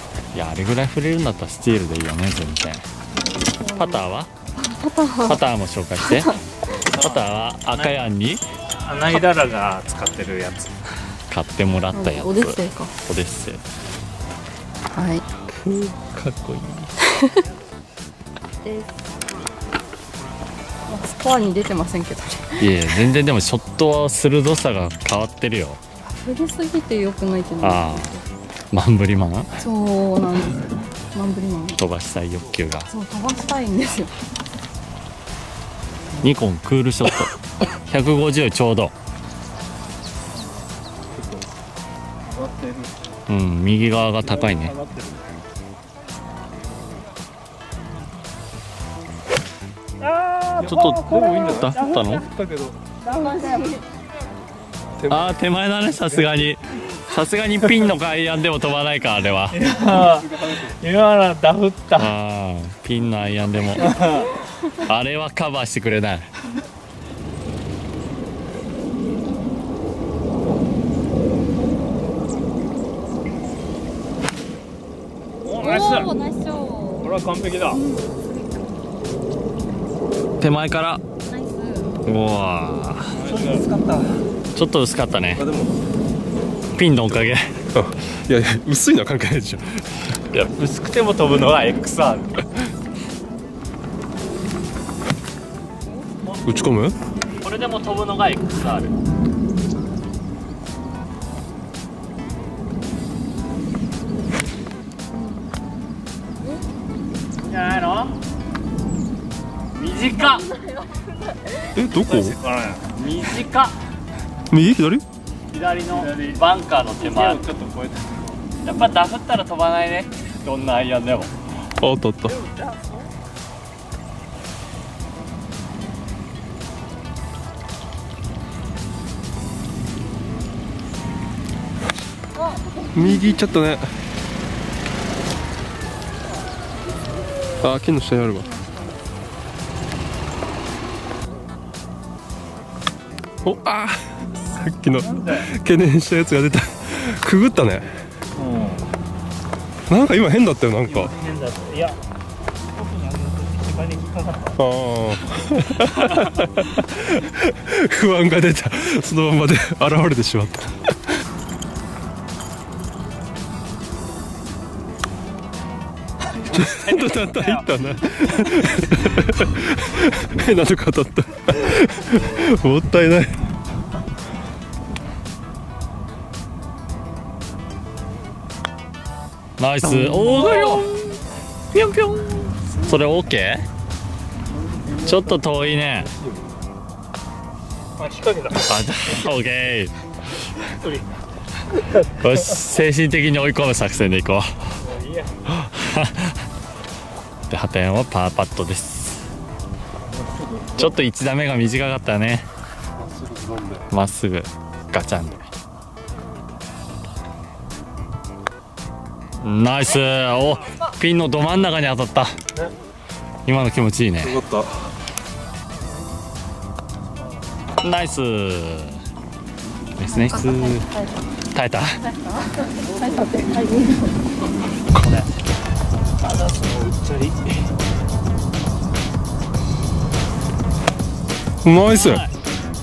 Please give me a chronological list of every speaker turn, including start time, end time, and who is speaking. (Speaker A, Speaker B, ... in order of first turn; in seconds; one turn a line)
Speaker A: 0.3-2.8
Speaker B: 3.4-5.4
Speaker A: 3.8-4.3
Speaker A: 5.2-6.3
Speaker B: 6.0-6.4
Speaker C: 7.0-7.2
Speaker A: 7.0-8.4
Speaker C: 8.8-10.7
Speaker A: 11.3-13.6
Speaker B: 11.9-12.9
Speaker B: 14.9-15.2
Speaker A: 15.5-16.9
Speaker B: 17.1-17.4
Speaker B: 18.6-19.0
Speaker B: 20.9-22.9
Speaker A: 22.6-25.8
Speaker B: 26.0-28.2
Speaker A: 27.6-28.1
Speaker A: 28.7-29.5
Speaker B: 29.6-31.8
Speaker A: 31.7-32.9
Speaker B: 32.9-34.1
Speaker A: 36.2-38.9
Speaker D: 41.1-41.4
Speaker C: 42.4-42.8
Speaker A: 43.3-44.8
Speaker C: 50.1-51.7
Speaker D: 50.5-52.8
Speaker A: 50.7-52.3
Speaker B: 53.0-53.8
Speaker D: 55.0-55.3
Speaker A: 55.1-59.6
Speaker D: 56.0-56.3
Speaker C: 59.5-62.1
Speaker D: 59.7-60.8
Speaker A: 62.0-64.0
Speaker A: 64.8-66.3
Speaker C: 75.4-76.1
Speaker B: 75.5-77.1
Speaker C: 77.0-77.8
Speaker B: 77.7-78.3
Speaker A: 80.4-81.0
Speaker B: 81.2-81.9
Speaker A: 82.0-83.3
Speaker C: 83.2-83.7
Speaker A: 84.5-85.5
Speaker D: 85.3-85.7
Speaker A: 86.7-87.5
Speaker D: 87.7-90.1
Speaker A: 90.3-92.3
Speaker D: 96.4-97.0
Speaker A: 97.4-98.9
Speaker B: 105.1-105.4
Speaker A: 107.5-108.0
Speaker A: 109.8-110.4
Speaker B: 109.8-111.8
Speaker D: 111.7-112.4
Speaker C: 112.0-112.8
Speaker A: 112.9-113.7
Speaker D: 114.5-115.0
Speaker A: 115.5-117.5
Speaker C: 117.4-118.2
Speaker A: 118.6-121.3
Speaker D: 121.8-122.4
Speaker B: 132.4-133.4
Speaker D: 132.9-133.9
Speaker D: 137.6-138.5
Speaker B: 138.3-139.0
Speaker D: 143.4-147.9
Speaker C: 145.0-145.5
Speaker C: 148.3-148.9
Speaker D: 149.9-151.1
Speaker C: 150.9-152.0
Speaker C: 152.8-154.5
Speaker D: 154.6-160.9
Speaker D: 166.4-173.4
Speaker C: 166.7-167.6
Speaker A: 179.6-180.9
Speaker A: 181.7-183.7
Speaker D: 184.7-185.3
Speaker A: 185.0-186.1
Speaker D: 186.1-186.5
Speaker C: 188.0-188.8
Speaker A: 188.6-189.9
Speaker C: 190.8-191.0
Speaker A: 192.1-194.6
Speaker C: 194.8-195.3
Speaker A: 195.5-196.4
Speaker A: 197.5-199.3
Speaker D: 200.2-200.9
Speaker A: 200.8-202.5
Speaker D: 202.9-203.9
Speaker A: 203.9-205.5
Speaker A: 209.4-212.4
Speaker A: 213.4-214.4
Speaker D: 214.2-214.9
Speaker A: 217.8-219.0
Speaker A: 220.0-220.9
Speaker B: 220.0-221.3
Speaker A: 221.5-222.0
Speaker B: 222.0-224.1
Speaker A: 224.9-225.3
Speaker C: 226.2-227.6
Speaker D: 231.6-232.3
Speaker C: 232.0-232.3